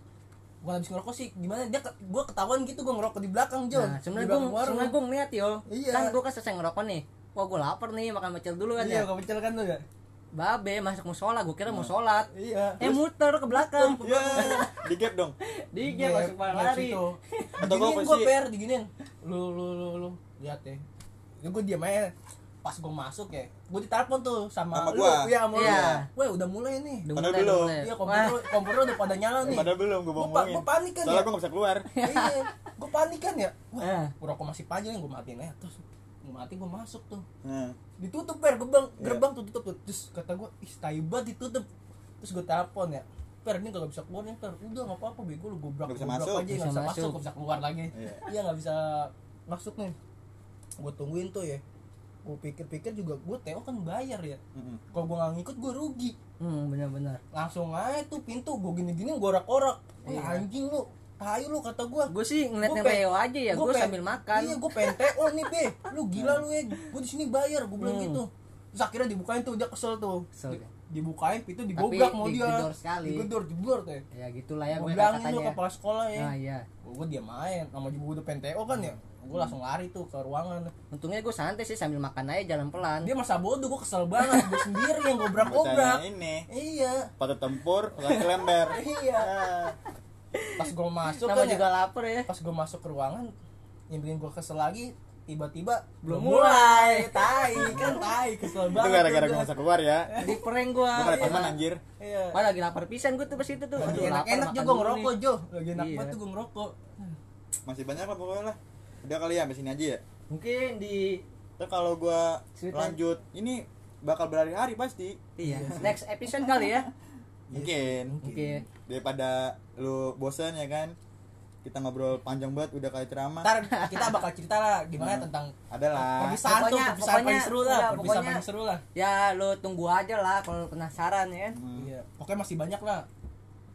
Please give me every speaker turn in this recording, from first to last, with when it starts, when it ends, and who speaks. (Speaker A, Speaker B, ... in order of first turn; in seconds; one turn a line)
Speaker A: 0.6-5.0
Speaker B: 3.7-9.1
Speaker A: 5.7-6.2
Speaker A: 8.8-9.8
Speaker B: 10.3-12.3
Speaker A: 12.3-12.9
Speaker B: 12.8-14.7
Speaker A: 13.5-14.7
Speaker C: 14.0-15.4
Speaker B: 15.6-17.5
Speaker A: 15.8-20.8
Speaker C: 17.6-18.3
Speaker A: 21.4-27.1
Speaker C: 24.7-26.0
Speaker B: 25.5-26.1
Speaker B: 27.1-28.5
Speaker C: 27.1-27.8
Speaker A: 27.8-31.3
Speaker C: 29.4-31.9
Speaker B: 31.9-32.6
Speaker A: 32.0-37.2
Speaker B: 33.8-34.1
Speaker C: 37.4-37.8
Speaker A: 38.0-41.7
Speaker C: 39.0-39.2
Speaker A: 42.2-50.0
Speaker C: 45.9-46.5
Speaker B: 46.5-47.2
Speaker C: 47.9-48.2
Speaker A: 50.8-51.6
Speaker A: 52.2-54.4
Speaker C: 54.5-54.8
Speaker A: 54.9-56.2
Speaker B: 56.4-57.2
Speaker A: 57.3-74.0
Speaker B: 60.0-60.5
Speaker B: 62.1-64.7
Speaker C: 66.2-66.4
Speaker B: 67.8-68.2
Speaker B: 70.3-70.7
Speaker B: 71.8-73.3
Speaker B: 74.1-75.6
Speaker A: 74.7-76.3
Speaker B: 76.2-76.7
Speaker A: 76.8-80.7
Speaker B: 80.9-83.1
Speaker A: 83.0-87.1
Speaker B: 84.3-84.6
Speaker C: 85.4-86.5
Speaker C: 87.2-89.8
Speaker A: 88.0-89.3
Speaker B: 90.4-92.3
Speaker A: 90.6-91.6
Speaker A: 92.3-93.3
Speaker A: 93.9-99.5
Speaker B: 96.0-98.0
Speaker C: 97.5-98.1
Speaker C: 98.7-100.1
Speaker A: 100.1-100.4
Speaker B: 100.2-101.6
Speaker C: 100.9-101.8
Speaker A: 101.1-102.4
Speaker B: 102.3-105.1
Speaker A: 103.8-107.2
Speaker B: 105.8-106.2
Speaker C: 107.7-110.0
Speaker B: 110.3-111.2
Speaker C: 111.6-115.9
Speaker B: 112.6-113.0
Speaker B: 115.4-116.9
Speaker A: 115.4-115.9
Speaker A: 117.5-118.7
Speaker C: 117.5-118.2
Speaker B: 118.2-118.6
Speaker C: 118.9-121.0
Speaker C: 121.6-123.5
Speaker A: 123.4-128.8
Speaker B: 123.7-124.2
Speaker C: 125.0-126.4
Speaker B: 126.5-128.4
Speaker B: 128.9-131.6
Speaker C: 131.6-131.9
Speaker A: 131.8-133.1